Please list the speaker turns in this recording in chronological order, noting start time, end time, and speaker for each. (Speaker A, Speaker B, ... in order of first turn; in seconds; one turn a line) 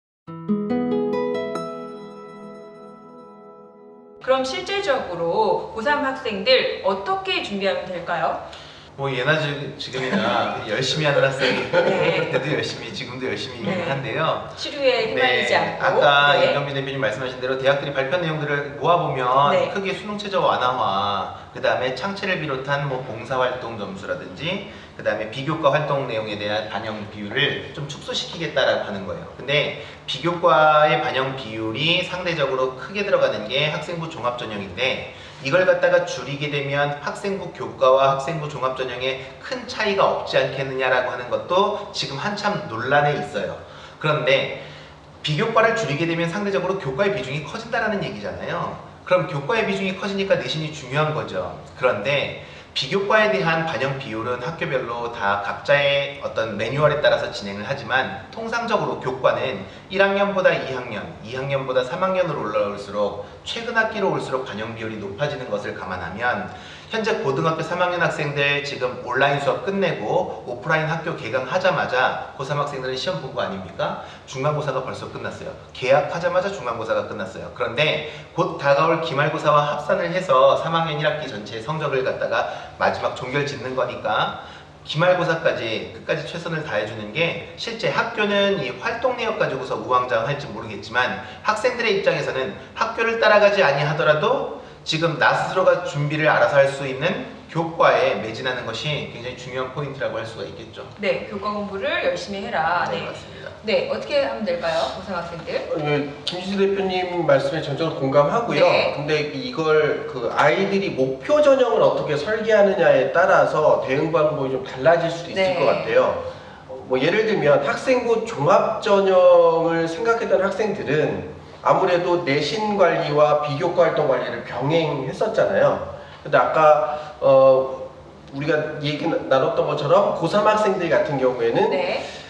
Speaker A: 4.2-8.4
Speaker B: 8.9-44.6
Speaker C: 10.1-10.4
Speaker C: 11.4-11.9
Speaker A: 11.8-12.4
Speaker A: 13.6-16.6
Speaker A: 19.4-19.8
Speaker B: 45.2-100.9
Speaker A: 101.0-105.7
Speaker B: 102.7-103.6
Speaker C: 105.7-131.9
Speaker A: 108.5-109.0
Speaker A: 115.3-116.0
Speaker A: 131.6-132.0